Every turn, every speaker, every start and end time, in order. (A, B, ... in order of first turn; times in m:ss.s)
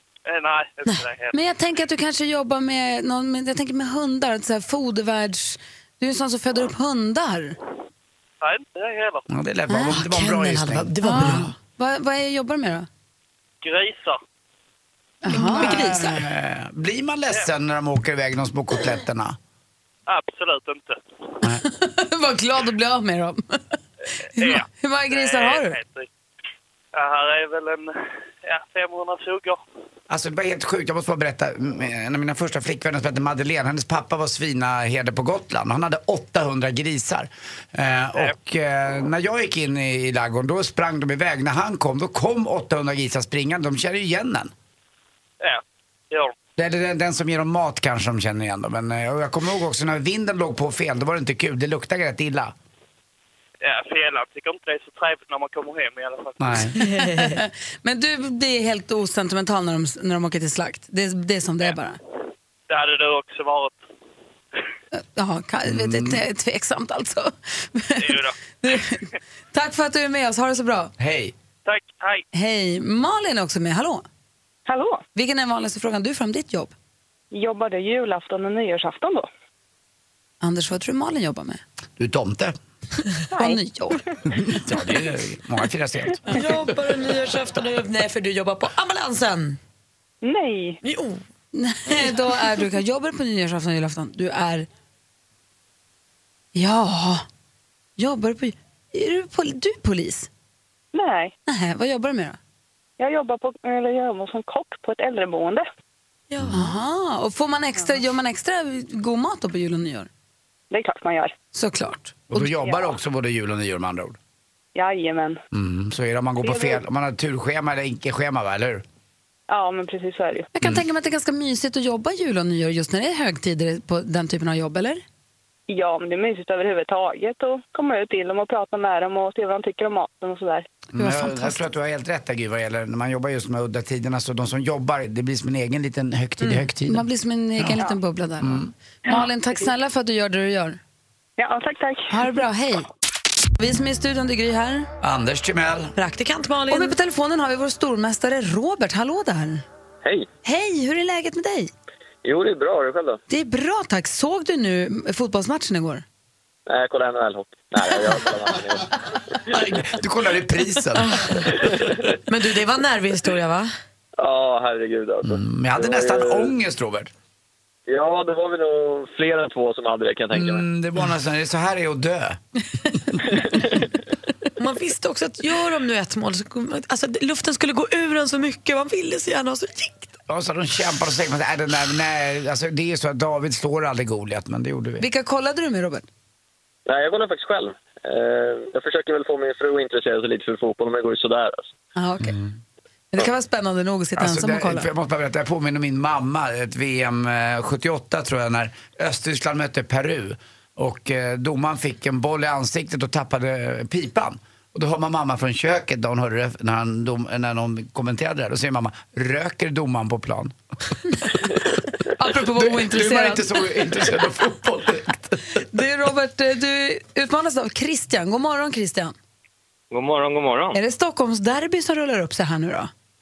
0:00.3-0:01.4 A
0:01.3-0:07.6 B
0:08.4-0:09.2 A
0:09.3-0:11.4 C
0:09.7-0:10.0 B
0:09.9-0:11.5 D
0:11.0-0:12.9 B
0:13.6-0:14.2 A
0:15.2-0:16.1 B
0:15.3-0:16.1 D
0:15.4-0:19.4 C
0:20.1-0:21.0 A
0:21.6-0:23.4 B
0:24.4-0:25.8 B
0:24.4-0:26.1 A
0:26.9-0:27.9 A
0:28.4-0:29.6 A
0:30.1-0:44.5 C
0:45.4-0:46.3 A
0:46.6-0:52.5 C
0:53.6-0:56.7 A
0:56.4-0:56.7 C
0:56.8-1:02.0 B
0:56.9-0:57.4 D
1:02.7-1:03.8 A
1:05.0-1:09.0 B
1:05.6-1:06.2 C
1:08.0-1:08.4 A
1:09.5-1:10.9 B
1:11.0-1:11.3 C
1:11.6-1:12.2 A
1:12.3-1:14.0 B
1:14.7-1:15.0 E
1:15.1-1:16.7 B
1:17.3-1:19.3 E
1:20.4-1:21.6 B
1:22.0-1:22.6 C
1:23.4-1:24.0 B
1:24.3-1:26.4 C
1:26.3-1:29.6 D
1:30.2-1:30.8 E
1:30.8-1:31.2 D
1:31.5-1:34.7 B
1:36.5-1:37.2 B
1:38.0-1:40.3 B
1:40.9-1:41.3 E
1:41.4-1:42.4 B
1:43.0-1:45.7 E
1:46.3-1:46.7 D
1:46.5-1:50.1 B
1:50.7-1:51.3 E
1:51.5-1:52.5 B
1:52.3-1:54.2 C
1:54.7-1:55.4 E
1:55.5-1:58.8 C
1:56.4-1:56.8 E
1:59.5-2:00.5 E
2:00.5-2:05.0 B
2:05.7-2:10.7 E
2:10.9-2:17.8 C
2:11.0-2:11.6 B
2:16.9-2:20.8 B
2:18.4-2:18.7 C
2:21.4-2:22.1 E
2:22.1-2:22.9 B
2:23.6-2:24.9 B
2:25.0-2:25.9 C
2:26.0-2:27.0 D
2:26.7-2:29.6 B
2:30.4-2:31.7 B
2:32.2-2:33.2 F
2:33.3-2:36.0 B
2:36.7-2:38.9 F
2:39.5-2:41.2 C
2:41.0-2:41.6 D
2:42.3-2:43.7 D
2:44.2-2:46.5 F
2:45.2-2:47.1 C
2:47.9-2:50.6 F
2:50.3-2:52.4 C
2:54.6-3:00.1 D
3:00.3-3:05.0 C
3:05.0-3:06.0 B
3:06.8-3:11.7 F
3:12.0-3:12.4 B
3:12.2-3:12.5 C
3:13.1-3:14.9 B
3:14.2-3:30.5 C
3:32.1-3:33.5 B
3:32.5-3:35.4 C
3:35.7-3:39.1 B
3:40.7-3:42.9 B